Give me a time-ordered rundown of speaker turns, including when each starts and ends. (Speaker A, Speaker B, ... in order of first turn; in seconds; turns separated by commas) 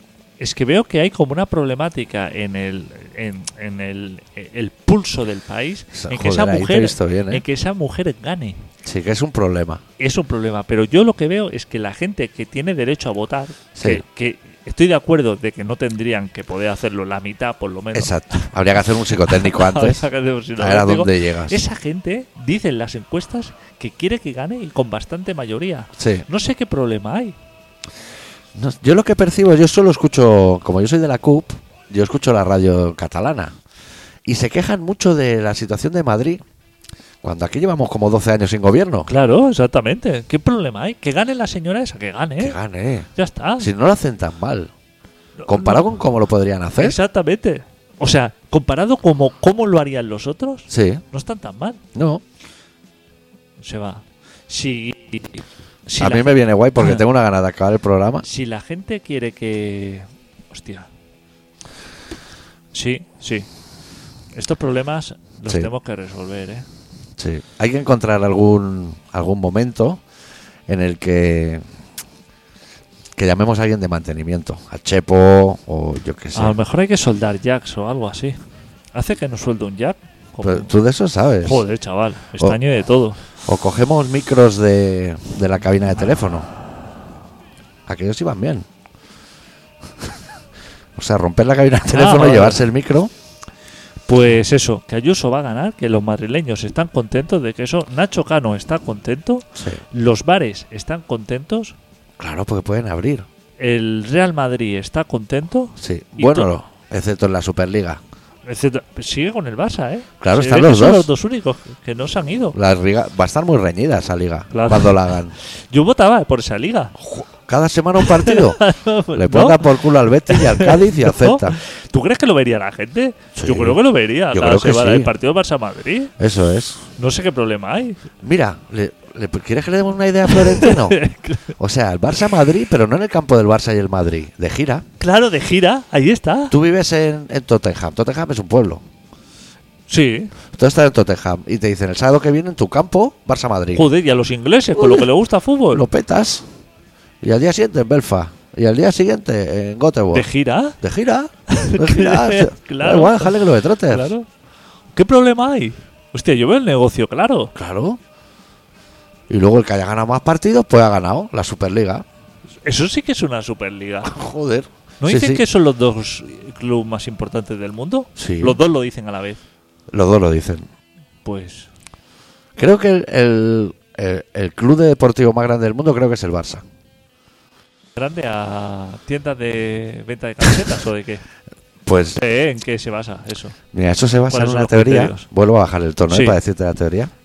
Speaker A: 0.4-8.7, Speaker B: 5.9-7.4, Speaker B: 8.8-9.8, Speaker A: 10.0-18.5, Speaker B: 13.8-14.0, Speaker B: 17.9-20.0, Speaker A: 19.1-27.4, Speaker B: 20.6-21.6, Speaker B: 26.0-26.2, Speaker B: 28.5-33.5, Speaker B: 34.2-36.4, Speaker B: 37.2-39.1, Speaker A: 39.1-42.6, Speaker B: 42.4-44.7, Speaker A: 43.1-43.7, Speaker A: 45.4-45.9, Speaker B: 45.5-47.0, Speaker A: 46.8-51.8, Speaker B: 50.7-51.0, Speaker B: 51.9-52.2, Speaker A: 53.6-57.0, Speaker B: 56.0-58.2, Speaker A: 58.2-60.9, Speaker A: 62.7-63.5, Speaker A: 64.3-66.7, Speaker B: 67.2-70.0, Speaker B: 70.7-71.6, Speaker B: 73.2-76.6, Speaker A: 76.3-78.4, Speaker A: 78.9-80.7, Speaker B: 80.4-81.6, Speaker A: 81.4-83.2, Speaker B: 83.4-86.5, Speaker B: 87.9-88.7, Speaker B: 91.0-93.1, Speaker A: 91.9-92.6, Speaker A: 94.1-101.8, Speaker B: 99.5-99.8, Speaker B: 102.2-103.2, Speaker A: 103.6-106.5, Speaker B: 105.8-108.0, Speaker A: 108.5-112.5, Speaker B: 110.2-111.1, Speaker B: 112.5-115.3, Speaker A: 114.5-116.9, Speaker B: 117.0-118.6, Speaker A: 118.0-126.1, Speaker B: 119.1-121.6, Speaker B: 123.3-123.8, Speaker B: 124.3-125.1, Speaker B: 126.2-126.8, Speaker A: 127.0-128.0, Speaker B: 128.2-131.0, Speaker A: 130.3-131.5, Speaker B: 131.6-134.8, Speaker A: 135.0-136.5, Speaker B: 136.5-138.8, Speaker A: 139.9-140.3, Speaker B: 140.5-143.8, Speaker A: 143.7-145.8, Speaker B: 144.8-145.1, Speaker B: 145.7-146.4, Speaker B: 147.2-150.3, Speaker A: 150.1-150.8, Speaker B: 150.8-154.1, Speaker A: 151.5-154.3, Speaker A: 154.9-157.5, Speaker B: 157.5-158.0, Speaker B: 159.3-162.0, Speaker A: 162.6-164.1, Speaker B: 164.0-165.4, Speaker A: 165.0-169.4, Speaker B: 168.2-168.6, Speaker B: 169.9-170.7, Speaker A: 171.2-171.7, Speaker B: 172.6-176.6, Speaker A: 177.9-181.2, Speaker B: 181.8-182.2, Speaker A: 182.2-183.6, Speaker B: 183.7-187.1, Speaker A: 184.3-185.3, Speaker A: 186.1-186.4